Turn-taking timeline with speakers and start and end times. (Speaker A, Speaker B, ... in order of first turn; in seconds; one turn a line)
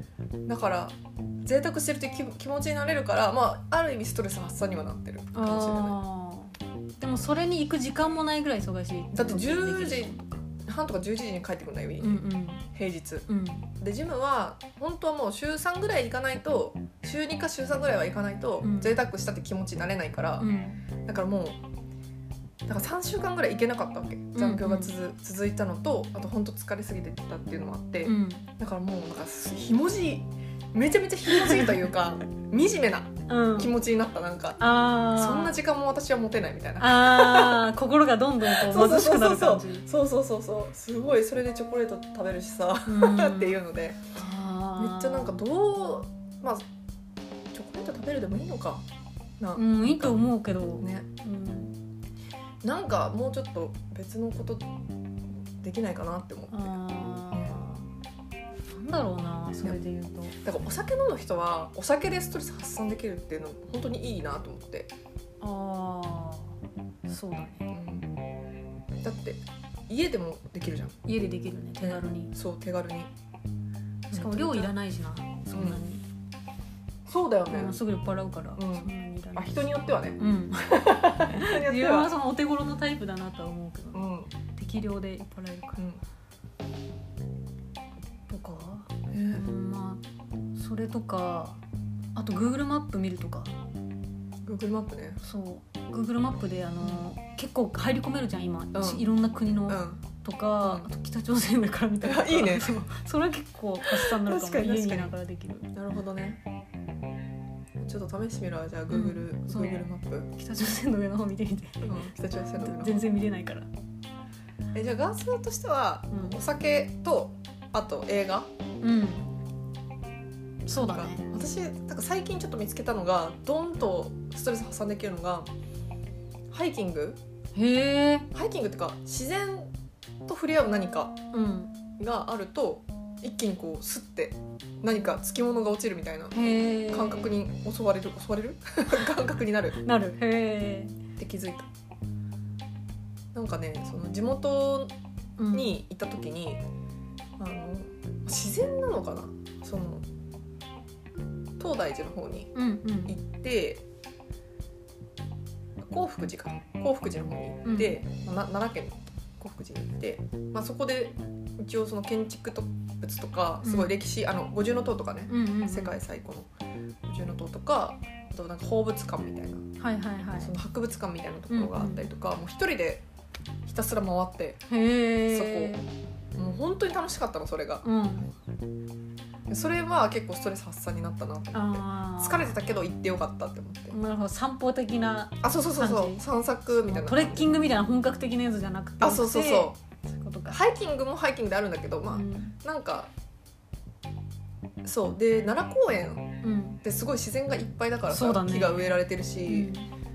Speaker A: 0.5-6.0
Speaker B: 5.3-10.4
Speaker A: 9.1-12.2
Speaker B: 12.0-12.7
Speaker A: 12.7-13.2
Speaker B: 13.3-13.7
Speaker A: 13.8-20.5
Speaker B: 18.6-19.0
Speaker B: 20.4-20.8
Speaker A: 21.0-21.6
Speaker A: 22.6-37.7
Speaker B: 24.3-24.9
Speaker B: 28.0-28.5
Speaker B: 31.3-31.7
Speaker B: 33.3-33.7
Speaker B: 34.6-35.6
Speaker B: 36.8-39.9
Speaker A: 38.4-44.0
Speaker B: 42.9-43.6
Speaker B: 44.1-45.4
Speaker A: 44.8-46.6
Speaker A: 47.5-48.8
Speaker A: 49.4-50.2
Speaker B: 49.5-51.7
Speaker A: 50.8-51.1
Speaker A: 52.6-54.7
Speaker A: 55.6-56.7
Speaker B: 56.5-57.9
Speaker B: 58.7-60.4
Speaker A: 60.4-64.9
Speaker B: 65.4-66.5
Speaker B: 67.1-67.7
Speaker A: 67.7-68.1
Speaker A: 69.0-71.0
Speaker B: 71.0-72.3
Speaker A: 71.8-73.1
Speaker B: 74.1-76.0
Speaker A: 74.1-74.7
Speaker A: 75.5-75.8
Speaker A: 77.0-77.8
Speaker B: 77.5-85.8
Speaker A: 78.6-82.1
Speaker A: 83.9-84.3
Speaker B: 88.3-90.0
Speaker A: 89.1-89.5
Speaker B: 90.5-91.6
Speaker B: 92.1-93.5
Speaker A: 94.4-95.2
Speaker B: 95.2-105.7
Speaker A: 96.8-97.1
Speaker A: 98.7-99.1
Speaker A: 99.7-100.0
Speaker A: 100.6-100.9
Speaker A: 102.0-102.7
Speaker A: 103.8-105.1
Speaker A: 105.7-106.4
Speaker A: 107.8-110.3
Speaker B: 108.9-111.9
Speaker A: 111.8-113.0
Speaker B: 112.6-113.7
Speaker A: 114.7-118.5
Speaker B: 116.1-116.4
Speaker B: 118.8-119.3
Speaker B: 120.7-121.2
Speaker A: 120.7-125.5
Speaker A: 126.5-127.2
Speaker B: 127.5-128.3
Speaker A: 128.3-129.7
Speaker A: 130.3-131.2
Speaker B: 131.3-131.7
Speaker A: 132.0-139.8
Speaker B: 136.3-137.3
Speaker B: 139.8-140.9
Speaker A: 141.2-141.7
Speaker A: 143.3-144.9
Speaker B: 145.4-145.8
Speaker A: 145.5-146.6
Speaker A: 147.4-150.0
Speaker A: 151.6-152.5
Speaker B: 152.5-153.1
Speaker A: 153.1-153.8
Speaker A: 155.9-166.5
Speaker B: 157.6-157.9
Speaker B: 163.6-163.9
Speaker B: 165.3-166.0
Speaker A: 167.1-169.6
Speaker B: 169.8-170.5
Speaker A: 170.4-173.0
Speaker B: 171.5-172.1
Speaker A: 173.6-174.6
Speaker B: 174.7-175.9
Speaker A: 175.3-175.7
Speaker A: 176.3-177.8
Speaker B: 177.8-178.3
Speaker A: 179.5-183.9
Speaker B: 181.5-182.6
Speaker B: 183.9-186.2
Speaker A: 185.4-187.5
Speaker B: 186.8-190.6
Speaker A: 189.0-189.8
Speaker A: 190.5-193.1
Speaker B: 192.1-192.5
Speaker A: 194.8-196.3
Speaker B: 196.4-196.8
Speaker A: 196.8-199.7
Speaker B: 198.1-198.9
Speaker B: 199.4-199.9